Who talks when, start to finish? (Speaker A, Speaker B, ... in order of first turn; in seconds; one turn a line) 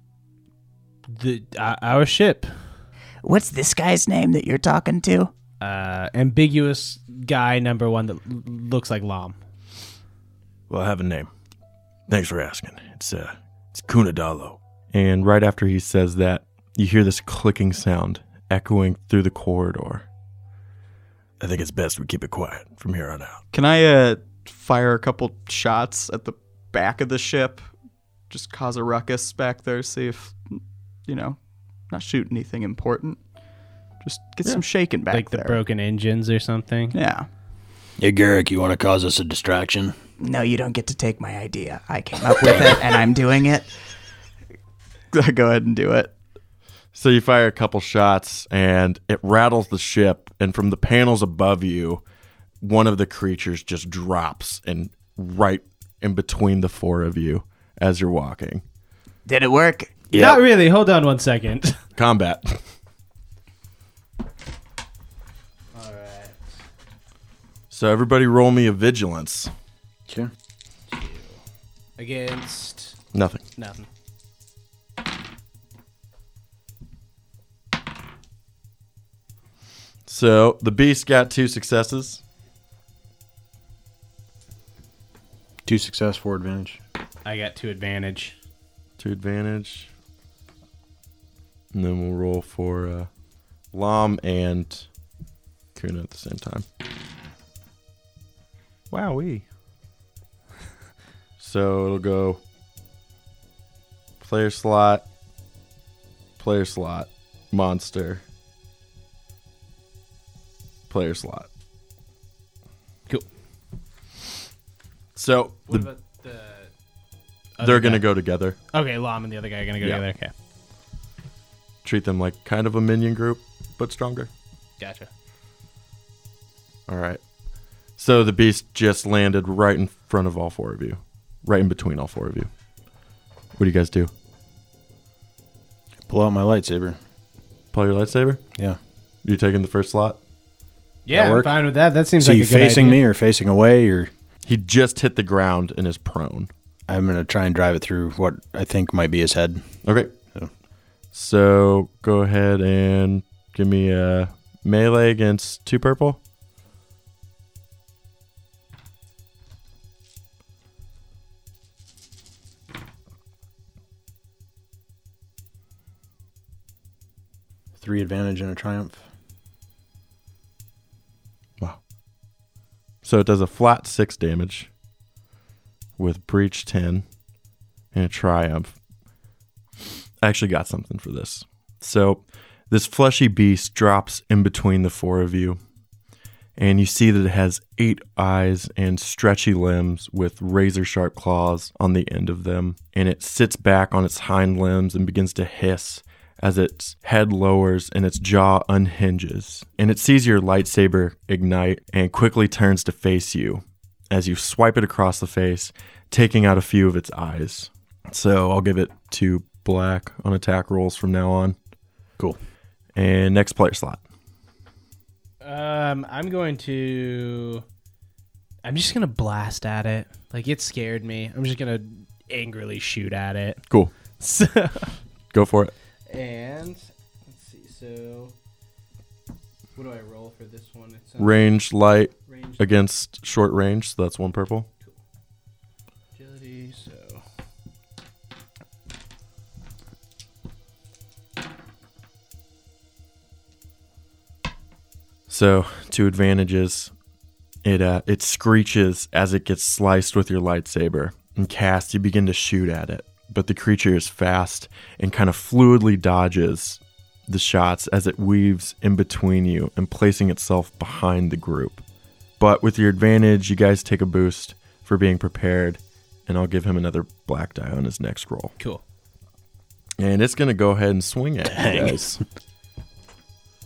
Speaker A: 1.1-2.5
Speaker B: 3.2-5.3
Speaker A: 5.6-9.4
Speaker C: 10.7-11.3
Speaker C: 12.1-20.1
Speaker C: 21.4-23.4
Speaker D: 23.5-27.7
Speaker D: 28.3-31.4
Speaker D: 31.9-33.2
Speaker D: 34.0-35.6
Speaker A: 35.1-37.0
Speaker D: 36.9-37.3
Speaker E: 38.0-39.9
Speaker B: 40.2-43.7
Speaker E: 42.4-42.8
Speaker D: 45.1-46.1
Speaker C: 46.9-52.0
Speaker C: 52.6-58.6
Speaker B: 59.3-59.9
Speaker E: 60.1-60.4
Speaker A: 60.1-61.8
Speaker C: 62.0-62.6
Speaker A: 65.7-66.4
Speaker C: 67.7-69.5
Speaker A: 70.9-71.4
Speaker A: 72.0-73.0
Speaker C: 73.1-73.4
Speaker A: 73.6-73.9
Speaker C: 80.1-82.2
Speaker E: 85.7-86.8
Speaker A: 87.2-88.4
Speaker C: 89.0-89.9
Speaker C: 91.7-93.1
Speaker C: 93.7-94.9
Speaker C: 95.8-96.7
Speaker C: 98.9-99.5
Speaker C: 101.4-102.4
Speaker C: 104.2-105.0
Speaker C: 106.4-108.2
Speaker C: 110.9-111.5
Speaker C: 115.2-115.9
Speaker A: 115.7-116.7
Speaker A: 117.6-118.1
Speaker C: 117.6-118.6
Speaker A: 118.7-120.3
Speaker C: 121.8-124.3
Speaker A: 124.8-125.1
Speaker C: 126.9-127.2
Speaker C: 128.0-132.5
Speaker C: 133.6-134.1
Speaker E: 136.1-137.0
Speaker C: 137.7-138.4
Speaker C: 139.2-140.2
Speaker A: 141.1-143.0
Speaker E: 141.1-141.6
Speaker E: 142.2-144.1
Speaker C: 144.4-146.5
Speaker E: 146.9-149.6
Speaker C: 149.8-150.1
Speaker C: 151.1-156.2
Speaker E: 167.8-169.0
Speaker C: 173.0-174.7
Speaker C: 176.0-177.1
Speaker C: 177.9-178.8
Speaker C: 180.2-185.6
Speaker C: 186.6-211.6
Speaker C: 213.0-214.0
Speaker A: 215.4-217.7
Speaker A: 218.6-223.6
Speaker A: 224.2-224.9
Speaker C: 225.3-225.7
Speaker A: 226.1-228.3
Speaker A: 229.8-231.4
Speaker C: 231.2-234.7
Speaker A: 232.3-232.7
Speaker A: 236.2-237.2
Speaker C: 245.3-246.9
Speaker C: 247.6-261.8
Speaker C: 262.4-268.5
Speaker C: 270.0-272.2
Speaker E: 271.5-272.1